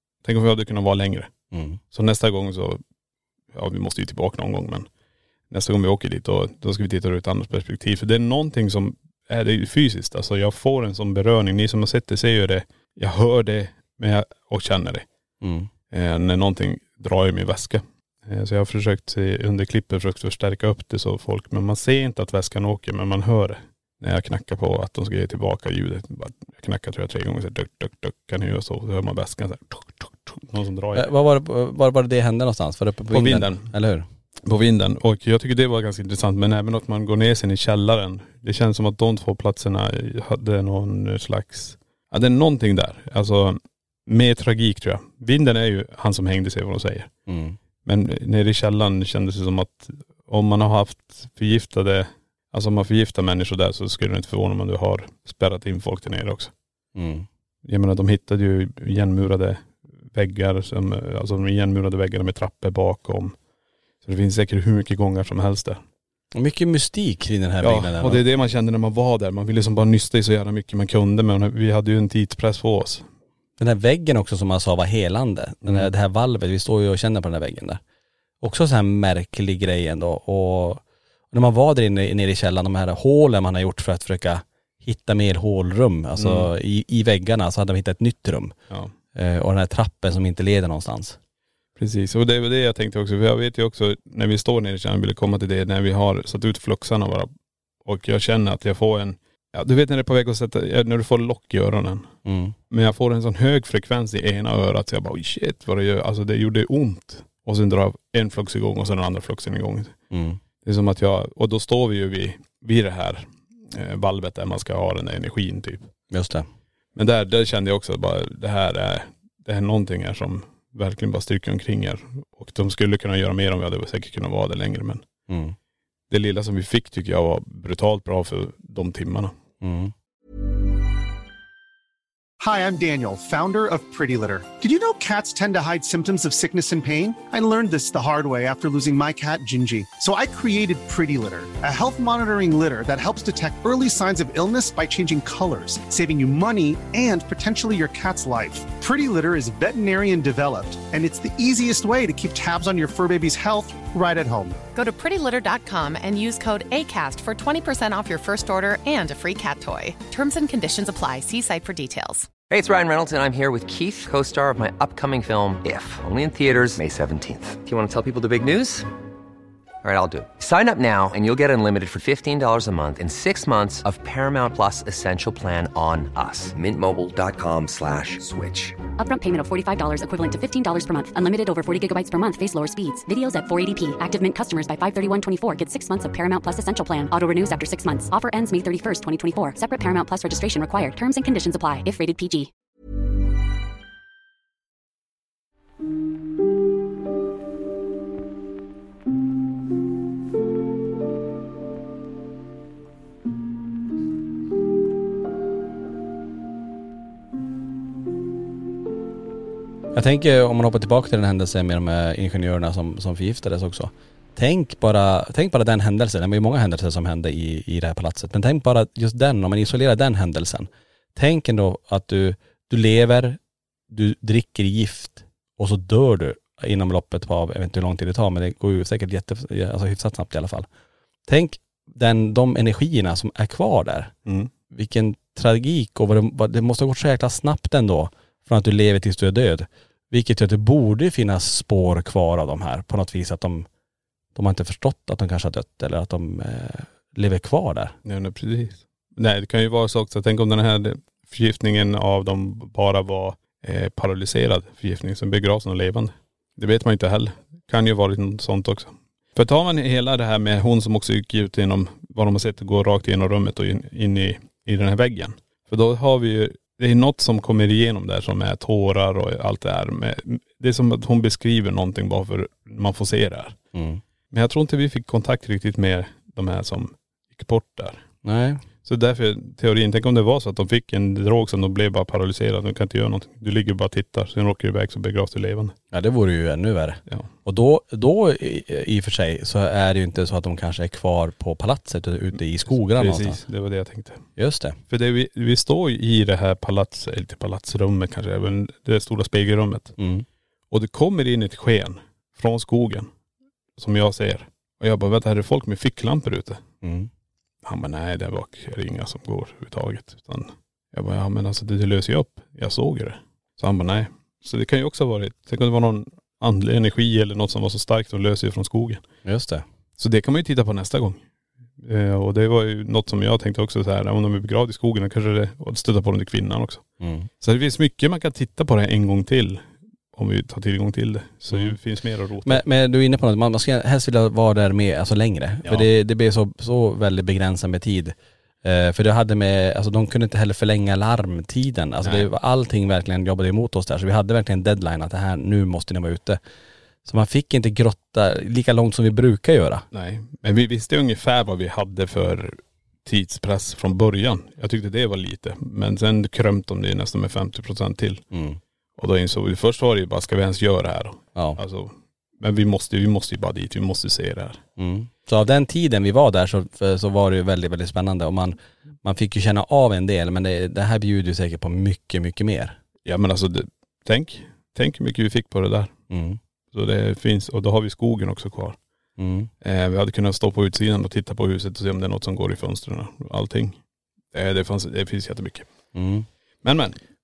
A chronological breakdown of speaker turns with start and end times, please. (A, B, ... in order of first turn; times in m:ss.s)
0:00.2-0:01.3 A
0:01.5-0:01.8 B
0:01.9-0:02.8 A
0:03.5-0:04.9 A
0:05.5-0:15.0 A
0:15.4-0:15.7 B
0:15.9-0:31.1 A
0:30.9-0:34.0 B
0:33.1-0:33.7 A
0:34.4-0:47.1 A
0:47.3-0:47.6 B
0:47.8-0:56.5 A
0:56.9-0:57.3 B
0:57.6-1:03.3 A
1:04.0-1:05.8 A
1:06.3-1:08.2 B
1:07.6-1:13.0 A
1:13.6-1:17.8 B
1:18.4-1:28.5 B
1:26.2-1:26.5 A
1:29.1-1:31.2 B
1:31.8-1:37.3 A
1:37.8-1:42.1 A
1:42.2-1:42.5 B
1:42.7-1:50.0 A
1:50.1-1:50.4 B
1:50.6-1:55.9 A
1:56.1-1:56.5 B
1:56.9-2:05.0 A
2:05.3-2:05.6 B
2:06.1-2:09.3 A
2:09.6-2:09.9 B
2:12.4-2:34.6 C
2:34.7-2:42.3 D
2:42.5-2:48.9 E
2:49.8-2:58.8 E
2:59.0-3:12.5 F
3:29.9-3:43.4 B
3:43.9-3:50.7 B
3:51.3-3:54.1 B
3:54.7-4:03.7 B
4:04.4-4:08.0 B
4:08.0-4:33.6 A
4:33.7-4:34.0 B
4:34.3-4:38.0 A
4:38.2-4:38.6 B
4:38.8-4:45.7 A
4:45.9-4:53.4 B
4:52.9-4:54.2 A
4:54.4-4:54.8 B
4:54.9-4:59.9 A
5:00.0-5:00.2 B
5:00.7-5:03.1 A
5:03.8-5:06.6 A
5:06.8-5:07.1 B
5:07.6-5:19.0 A
5:19.2-5:19.6 B
5:20.0-5:21.2 A
5:21.8-5:26.8 A
5:27.0-5:27.3 B
5:27.4-5:32.6 A
5:32.4-5:46.4 B
5:42.0-5:42.3 A
5:47.0-5:49.8 B
5:49.9-5:58.2 A
5:58.3-5:58.6 B
5:59.0-6:04.6 A
6:04.8-6:12.8 B
6:13.0-6:15.9 A
6:16.1-6:16.4 B
6:16.7-6:18.8 A
6:19.2-6:19.5 B
6:19.6-6:23.8 A
6:24.3-6:25.7 A
6:25.9-6:26.3 B
6:26.6-6:27.0 A